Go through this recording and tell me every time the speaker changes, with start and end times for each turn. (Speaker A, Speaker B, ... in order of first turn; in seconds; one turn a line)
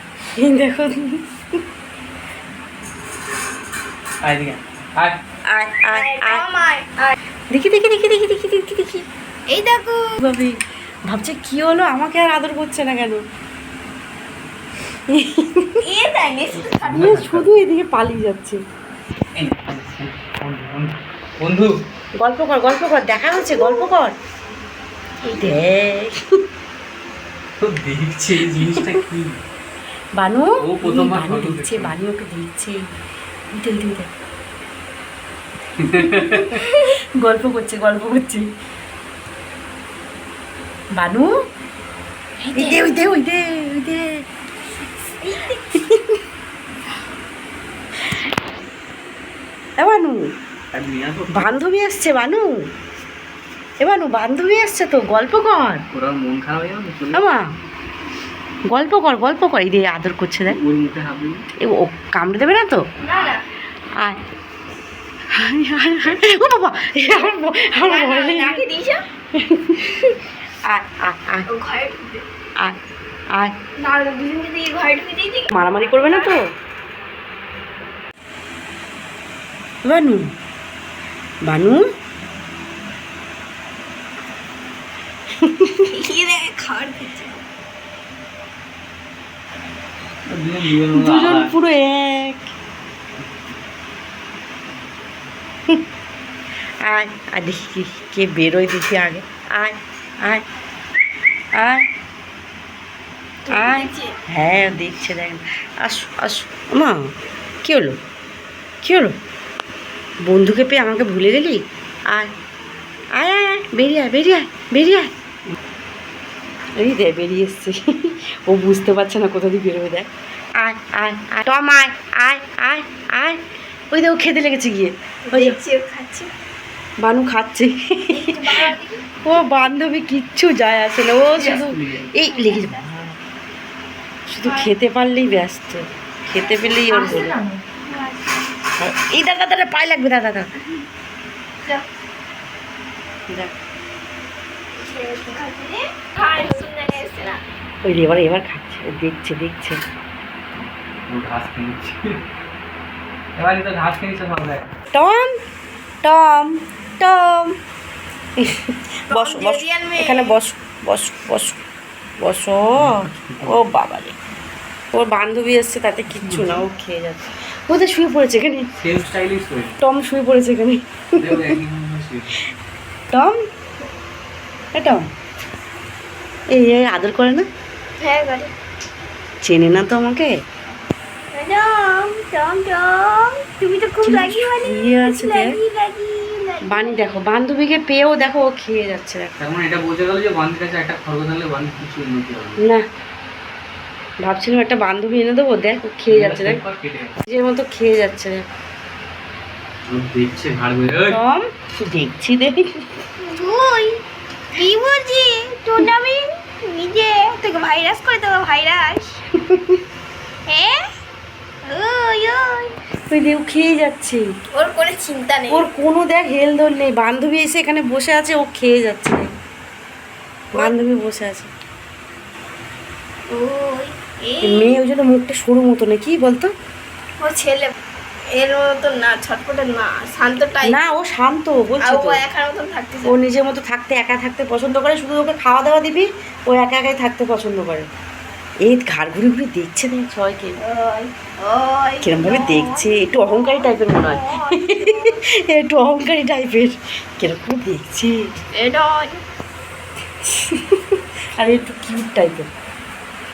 Speaker A: 0.4-1.2
Speaker B: 4.2-5.2
Speaker A: 5.5-6.4
Speaker C: 5.9-7.2
Speaker A: 7.5-9.0
Speaker C: 9.5-10.0
Speaker A: 10.2-10.5
Speaker A: 11.1-13.2
Speaker A: 15.1-15.8
Speaker C: 15.8-17.1
Speaker B: 16.6-17.5
Speaker A: 16.9-18.6
Speaker B: 19.4-21.7
Speaker A: 22.2-24.1
Speaker C: 23.3-24.1
Speaker A: 25.2-26.1
Speaker B: 27.6-29.4
Speaker A: 30.2-32.8
Speaker B: 30.6-32.0
Speaker A: 33.5-34.1
Speaker B: 35.8-36.6
Speaker A: 36.0-36.5
Speaker A: 37.2-38.5
Speaker A: 41.0-41.3
Speaker C: 42.4-42.9
Speaker A: 42.5-44.2
Speaker C: 45.2-45.6
Speaker A: 49.8-50.2
Speaker B: 50.7-51.5
Speaker A: 51.3-52.5
Speaker A: 53.8-55.8
Speaker B: 55.9-57.3
Speaker A: 57.1-57.5
Speaker A: 58.7-60.6
Speaker B: 60.5-61.4
Speaker A: 61.6-62.8
Speaker C: 63.0-63.4
Speaker A: 65.3-68.6
Speaker C: 67.8-69.0
Speaker A: 69.4-69.8
Speaker A: 70.7-71.5
Speaker C: 71.5-72.2
Speaker C: 73.8-76.4
Speaker A: 75.5-76.4
Speaker A: 79.8-80.3
Speaker A: 81.5-81.8
Speaker A: 85.4-85.7
Speaker C: 85.9-87.4
Speaker B: 90.3-91.5
Speaker A: 90.9-92.5
Speaker A: 96.8-100.4
Speaker A: 101.6-101.8
Speaker C: 103.5-104.1
Speaker A: 103.5-107.1
Speaker A: 107.6-108.0
Speaker A: 108.8-109.1
Speaker A: 110.3-112.3
Speaker A: 113.2-115.1
Speaker A: 116.8-120.1
Speaker A: 120.6-123.4
Speaker A: 123.9-125.6
Speaker C: 125.3-126.3
Speaker A: 127.0-128.6
Speaker C: 128.1-129.0
Speaker A: 129.2-133.2
Speaker B: 131.4-132.1
Speaker C: 132.2-132.8
Speaker A: 134.3-137.4
Speaker C: 134.4-134.7
Speaker C: 136.4-138.6
Speaker A: 138.8-140.5
Speaker C: 144.8-147.4
Speaker A: 147.8-149.8
Speaker B: 151.1-152.2
Speaker B: 153.4-154.7
Speaker A: 154.9-155.3
Speaker A: 156.0-157.6
Speaker C: 159.1-160.4
Speaker A: 159.1-161.6
Speaker A: 162.2-164.2
Speaker B: 162.8-163.6
Speaker A: 164.9-168.7
Speaker B: 166.2-166.6
Speaker B: 168.8-169.8
Speaker A: 169.8-170.8
Speaker B: 171.2-172.3
Speaker A: 174.8-175.1
Speaker A: 176.5-177.5
Speaker C: 178.0-178.5
Speaker A: 179.4-180.3
Speaker C: 181.3-187.0
Speaker A: 184.0-185.6
Speaker A: 186.7-189.3
Speaker B: 189.4-192.6
Speaker A: 194.2-196.6
Speaker B: 196.1-197.2
Speaker A: 197.3-198.4
Speaker B: 199.8-201.2
Speaker A: 201.1-202.8
Speaker C: 203.2-204.0
Speaker C: 204.6-209.2
Speaker A: 209.5-209.8
Speaker C: 210.5-210.8
Speaker C: 211.7-212.7
Speaker A: 213.1-214.2
Speaker C: 214.5-215.7
Speaker A: 215.5-219.3
Speaker A: 220.6-221.5
Speaker C: 223.3-224.8
Speaker A: 224.4-226.5
Speaker C: 227.2-227.7
Speaker C: 228.3-230.8
Speaker A: 230.6-232.2
Speaker C: 231.8-233.2
Speaker A: 233.1-237.9
Speaker A: 238.7-240.6
Speaker C: 240.6-245.2
Speaker A: 242.0-244.8
Speaker A: 245.4-248.2
Speaker C: 248.5-249.2
Speaker A: 250.3-250.6
Speaker A: 251.4-252.5